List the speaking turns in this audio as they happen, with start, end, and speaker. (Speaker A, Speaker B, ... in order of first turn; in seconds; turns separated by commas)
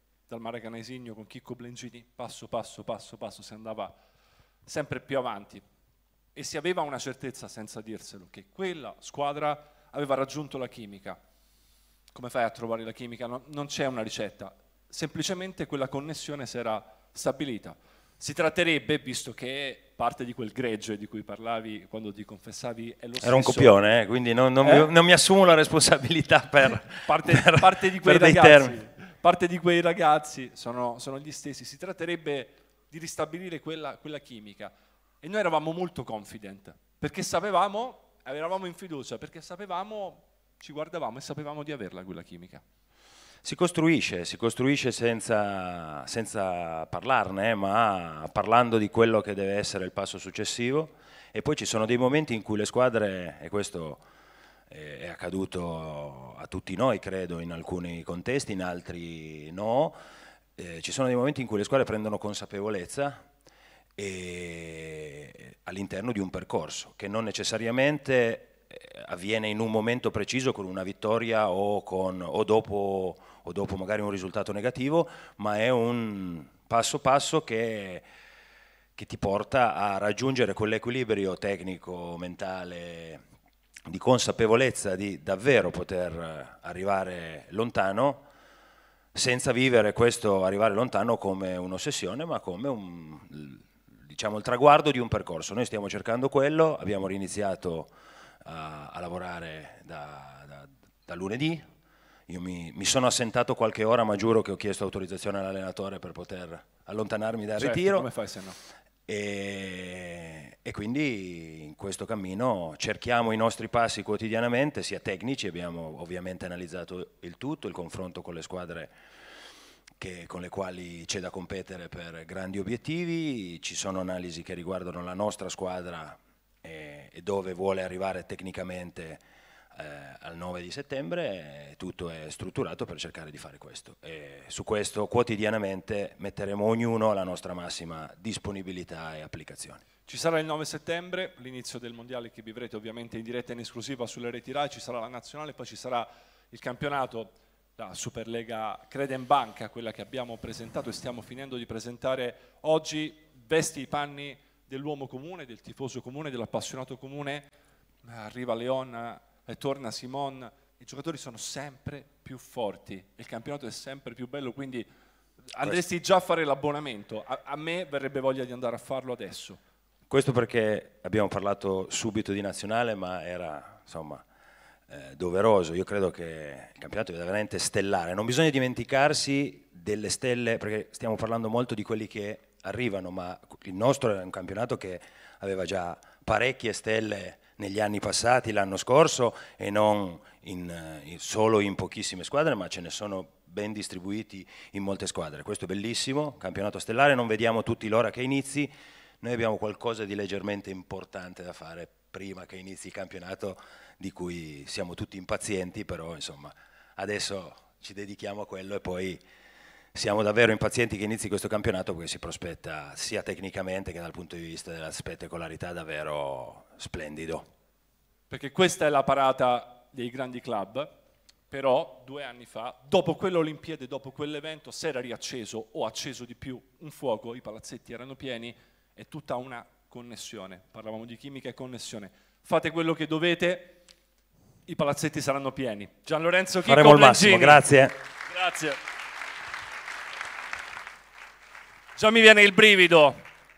Speaker A: 0.3-4.0, Speaker A: 4.7-5.6, Speaker A: 6.3-11.2, Speaker A: 12.1-23.8, Speaker B: 23.2-28.8, Speaker A: 24.6-24.9, Speaker A: 26.8-42.6, Speaker B: 43.4-54.0, Speaker B: 54.7-60.0, Speaker B: 60.6-63.3, Speaker B: 64.0-78.0, Speaker B: 79.0-83.2, Speaker B: 83.9-88.3, Speaker B: 89.1-97.9, Speaker B: 98.4-101.7, Speaker B: 102.3-108.1, Speaker A: 107.6-108.6, Speaker B: 109.1-118.9, Speaker B: 120.0-129.2, Speaker B: 129.7-139.8, Speaker A: 140.1-157.5, Speaker A: 158.0-164.9, Speaker A: 165.5-169.6, Speaker B: 170.1-174.2, Speaker B: 174.9-198.7, Speaker B: 199.2-209.2, Speaker B: 209.9-217.5, Speaker A: 218.3-220.9, Speaker A: 221.5-233.8, Speaker A: 234.7-237.6, Speaker B: 236.7-238.0, Speaker A: 238.3-238.8, Speaker A: 242.0-243.2